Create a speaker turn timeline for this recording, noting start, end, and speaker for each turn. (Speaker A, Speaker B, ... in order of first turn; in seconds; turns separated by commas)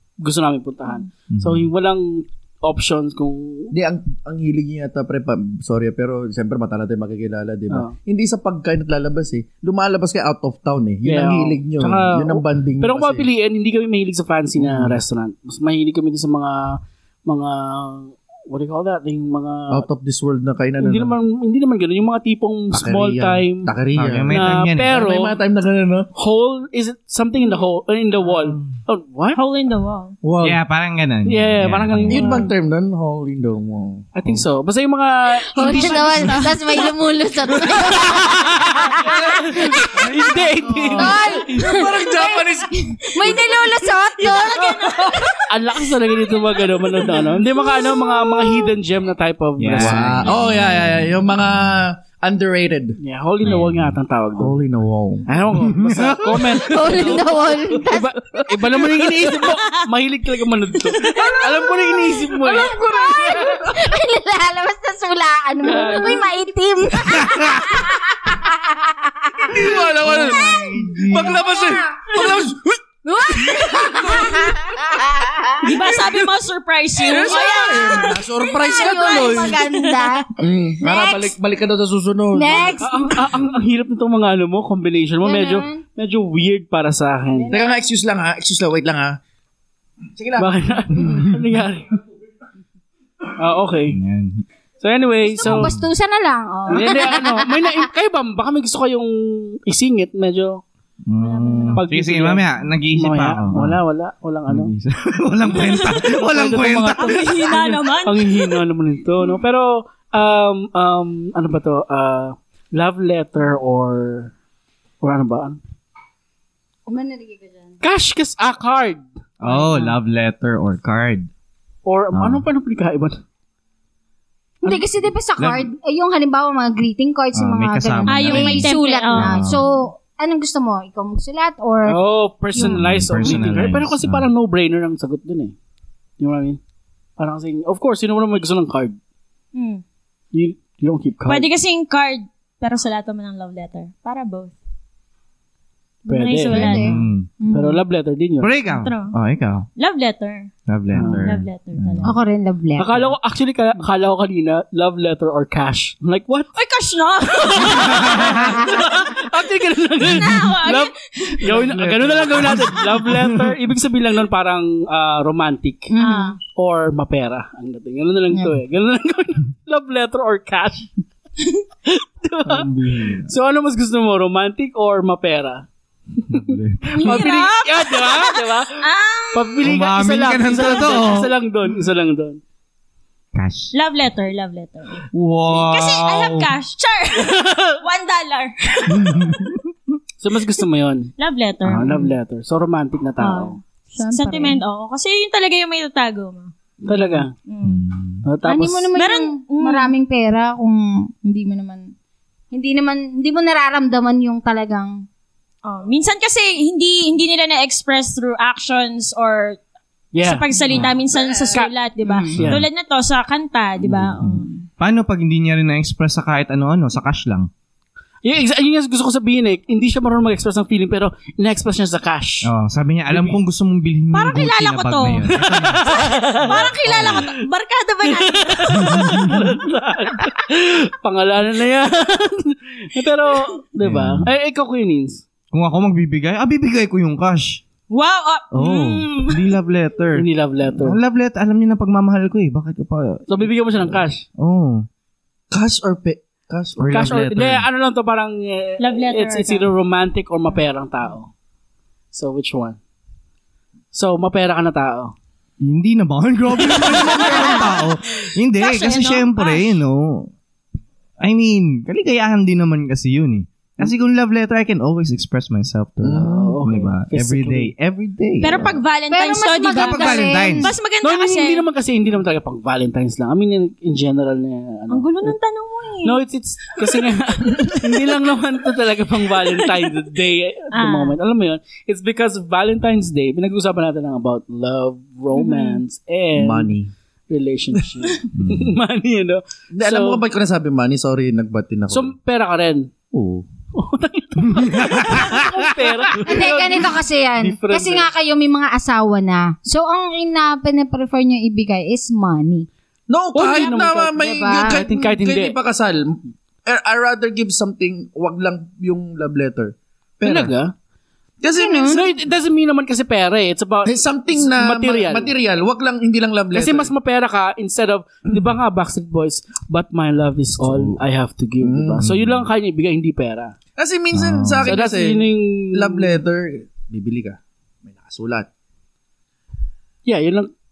Speaker A: 0.2-3.7, Speaker B: 1.3-1.7, Speaker C: 3.7-13.3, Speaker A: 7.7-8.0, Speaker A: 11.1-19.9, Speaker C: 19.7-21.1, Speaker A: 20.8-23.7, Speaker C: 22.7-26.1, Speaker B: 23.9-25.0, Speaker A: 24.3-25.4, Speaker A: 26.1-29.4, Speaker B: 28.4-28.7, Speaker D: 29.4-30.2, Speaker C: 30.2-30.6, Speaker B: 30.4-32.5, Speaker A: 31.2-32.5, Speaker C: 32.1-34.1, Speaker A: 34.1-36.6, Speaker E: 35.5-40.1, Speaker D: 35.6-36.6, Speaker A: 37.6-41.8, Speaker C: 39.0-43.2, Speaker E: 40.9-45.4, Speaker D: 44.2-45.4, Speaker A: 45.5-50.3, Speaker D: 46.2-47.2, Speaker E: 47.6-48.7, Speaker B: 49.6-51.1, Speaker C: 49.8-53.0, Speaker A: 53.0-54.6, Speaker B: 53.4-53.9, Speaker C: 54.4-55.3, Speaker A: 55.3-62.8, Speaker B: 55.6-56.2, Speaker C: 56.3-57.3, Speaker E: 56.6-58.4, Speaker C: 58.4-59.3, Speaker C: 61.0-61.5, Speaker E: 61.1-72.4, Speaker C: 62.5-63.7, Speaker A: 65.6-66.2, Speaker B: 67.0-67.8, Speaker C: 69.5-72.8, Speaker B: 70.0-71.4, Speaker E: 73.0-75.8, Speaker C: 73.3-74.5, Speaker D: 75.6-80.1, Speaker C: 77.0-79.6, Speaker E: 77.1-81.3, Speaker C: 80.4-82.8, Speaker E: 82.3-83.3, Speaker A: 82.8-87.5, Speaker E: 85.2-85.8, Speaker E: 87.3-87.8, Speaker C: 87.5-89.2, Speaker C: 90.2-90.5, Speaker A: 90.4-91.9, Speaker A: 93.4-94.0, Speaker B: 93.9-94.4, Speaker A: 94.8-95.7, Speaker E: 95.4-97.9, Speaker B: 95.4-95.9, Speaker A: 96.7-100.6, Speaker B: 101.1-103.8, Speaker D: 101.2-101.8, Speaker A: 101.7-104.7, Speaker B: 104.5-107.3, Speaker D: 105.5-106.0, Speaker A: 106.3-114.3, Speaker D: 107.0-108.6, Speaker A: 115.0-115.6, Speaker E: 116.9-117.8, Speaker A: 117.8-119.1, Speaker B: 119.4-121.3, Speaker A: 121.9-123.2, Speaker B: 122.1-122.5, Speaker E: 124.6-132.0, Speaker B: 125.4-125.7, Speaker B: 127.3-129.6, Speaker D: 128.1-129.5, Speaker A: 131.9-135.6, Speaker B: 132.6-134.3, Speaker A: 136.2-136.6, Speaker A: 137.2-139.0, Speaker D: 139.5-139.8, Speaker A: 140.3-141.5, Speaker D: 141.3-144.6, Speaker D: 146.1-146.9, Speaker A: 146.1-148.5, Speaker E: 146.5-147.8, Speaker B: 146.9-147.3, Speaker B: 148.4-149.7, Speaker D: 148.7-149.2, Speaker D: 149.8-150.5, Speaker B: 150.7-152.1, Speaker A: 150.9-151.3, Speaker D: 151.1-152.1, Speaker E: 152.0-152.9, Speaker A: 152.8-156.5, Speaker D: 156.5-158.5, Speaker A: 157.3-165.9, Speaker B: 157.7-158.6, Speaker D: 160.0-161.4, Speaker C: 161.5-162.9, Speaker B: 162.4-163.6, Speaker E: 165.9-166.4, Speaker D: 166.0-166.4, Speaker A: 166.6-170.9, Speaker A: 171.9-175.7, Speaker B: 172.5-173.3, Speaker A: 176.3-182.4, Speaker B: 176.3-177.2, Speaker D: 176.9-179.7, Speaker B: 179.6-181.3, Speaker B: 183.3-183.7, Speaker D: 183.7-189.4, Speaker B: 185.1-186.5, Speaker A: 187.2-187.8, Speaker B: 188.9-190.0, Speaker A: 190.2-191.1, Speaker D: 191.2-192.1, Speaker A: 191.7-193.6, Speaker D: 193.2-193.6, Speaker E: 193.9-194.6, Speaker D: 194.1-196.5, Speaker A: 196.8-197.3, Speaker D: 197.5-197.8, Speaker B: 197.6-198.3, Speaker A: 198.2-198.9, Speaker E: 198.4-201.9, Speaker D: 198.9-199.9, Speaker E: 202.5-205.1, Speaker D: 205.7-209.6, Speaker A: 210.1-210.5, Speaker D: 210.2-214.6, Speaker C: 211.2-211.5, Speaker E: 212.1-212.3, Speaker A: 212.3-212.7, Speaker B: 212.3-212.7, Speaker B: 214.0-217.5, Speaker A: 218.2-222.5, Speaker B: 222.4-227.3, Speaker A: 223.1-223.4, Speaker D: 224.1-225.3, Speaker A: 225.2-227.4, Speaker D: 225.9-229.4, Speaker A: 228.0-235.2, Speaker B: 228.9-229.4, Speaker B: 233.8-234.3, Speaker B: 235.5-237.6, Speaker D: 237.9-239.5, Speaker B: 238.5-244.9, Speaker A: 240.2-241.0, Speaker A: 243.3-244.2, Speaker C: 245.5-247.2, Speaker B: 246.8-247.7, Speaker A: 246.9-251.3, Speaker D: 248.8-249.7, Speaker A: 252.1-252.8, Speaker A: 253.9-255.1, Speaker B: 255.6-260.3, Speaker D: 257.2-257.6, Speaker D: 258.6-259.8, Speaker B: 261.2-268.8, Speaker C: 266.0-266.6, Speaker A: 266.2-267.7, Speaker D: 268.4-271.7, Speaker E: 269.1-270.7, Speaker B: 269.7-270.7, Speaker A: 271.0-275.4, Speaker D: 274.9-276.2, Speaker A: 276.0-286.7, Speaker D: 280.7-281.2, Speaker D: 285.4-285.8, Speaker C: 286.4-286.9, Speaker A: 287.3-290.2, Speaker B: 288.3-288.7, Speaker C: 289.7-292.1, Speaker A: 291.9-292.9, Speaker C: 293.1-293.5, Speaker A: 293.7-298.1, Speaker B: 294.5-295.5, Speaker E: 296.2-302.7, Speaker C: 303.1-310.5, Speaker A: 303.3-305.6, Speaker E: 304.1-304.8, Speaker A: 310.2-310.7, Speaker C: 311.4-312.0, Speaker E: 311.5-312.1, Speaker A: 311.9-315.3, Speaker C: 313.9-316.9, Speaker A: 316.5-323.6, Speaker C: 320.6-321.0, Speaker C: 321.6-322.1, Speaker B: 322.0-322.4, Speaker C: 323.8-328.5, Speaker B: 324.1-324.7, Speaker A: 324.6-326.1, Speaker A: 330.1-330.5